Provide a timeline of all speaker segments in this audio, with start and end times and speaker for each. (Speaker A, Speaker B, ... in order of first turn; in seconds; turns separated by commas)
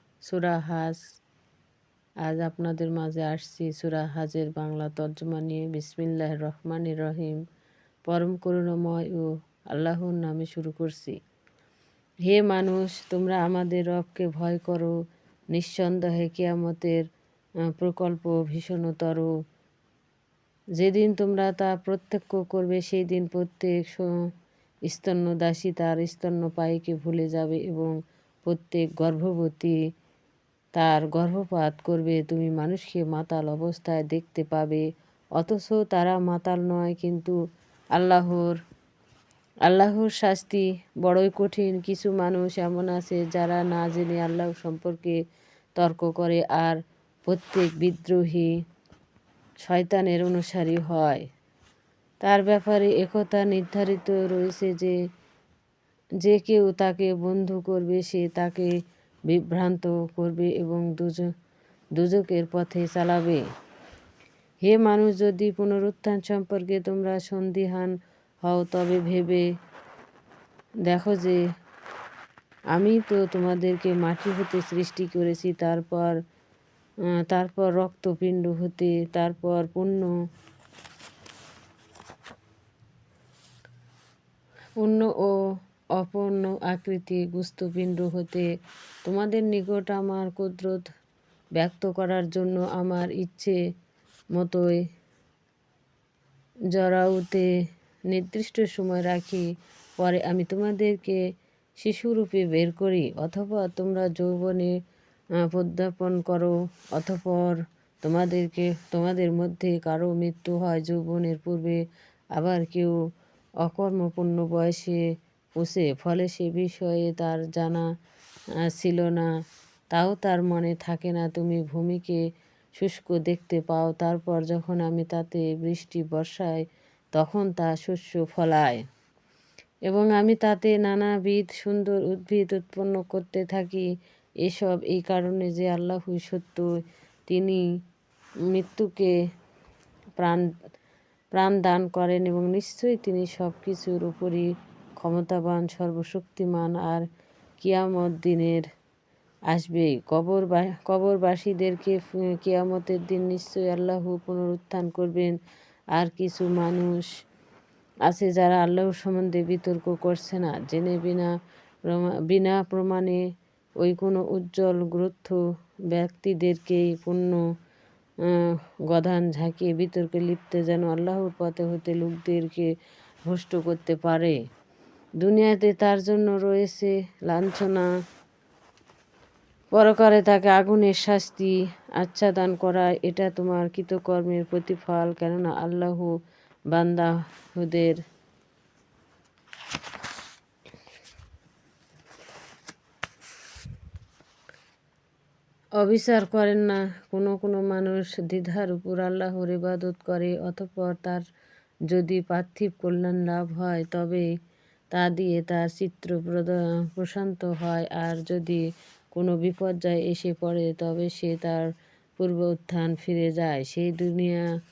Speaker A: 0.3-1.0, Speaker A: 2.2-7.4, Speaker A: 8.1-11.2, Speaker A: 12.3-14.9, Speaker A: 15.5-17.1, Speaker A: 17.8-19.3, Speaker A: 20.8-24.1, Speaker A: 24.9-27.9, Speaker A: 28.5-29.8, Speaker A: 30.8-34.9, Speaker A: 35.4-37.4, Speaker A: 38.0-38.6, Speaker A: 39.7-45.2, Speaker A: 45.8-48.5, Speaker A: 49.6-51.3, Speaker A: 52.2-55.0, Speaker A: 56.2-58.7, Speaker A: 59.3-61.3, Speaker A: 62.0-63.4, Speaker A: 64.6-69.5, Speaker A: 70.9-71.4, Speaker A: 72.7-76.2, Speaker A: 77.3-80.1, Speaker A: 84.8-85.3, Speaker A: 86.0-88.5, Speaker A: 89.1-90.8, Speaker A: 91.6-93.6, Speaker A: 94.3-94.8, Speaker A: 96.7-97.5, Speaker A: 98.1-99.5, Speaker A: 100.0-101.2, Speaker A: 101.8-104.7, Speaker A: 105.4-111.8, Speaker A: 112.4-113.0, Speaker A: 113.6-115.0, Speaker A: 115.6-117.9, Speaker A: 118.7-119.3, Speaker A: 119.9-122.2, Speaker A: 122.8-128.8, Speaker A: 129.9-133.9, Speaker A: 134.4-136.7, Speaker A: 137.3-137.6, Speaker A: 138.5-139.1, Speaker A: 140.2-140.5, Speaker A: 141.3-144.5, Speaker A: 145.0-147.1, Speaker A: 147.6-148.7, Speaker A: 149.5-155.3, Speaker A: 156.0-157.1, Speaker A: 158.1-161.3, Speaker A: 161.9-163.2, Speaker A: 163.8-165.4, Speaker A: 165.9-167.4, Speaker A: 168.3-172.7, Speaker A: 173.3-174.4, Speaker A: 175.2-177.9, Speaker A: 179.7-186.1, Speaker A: 186.7-188.0, Speaker A: 195.8-201.2, Speaker A: 201.9-204.3, Speaker A: 204.9-208.6, Speaker A: 209.2-211.7, Speaker A: 212.2-214.5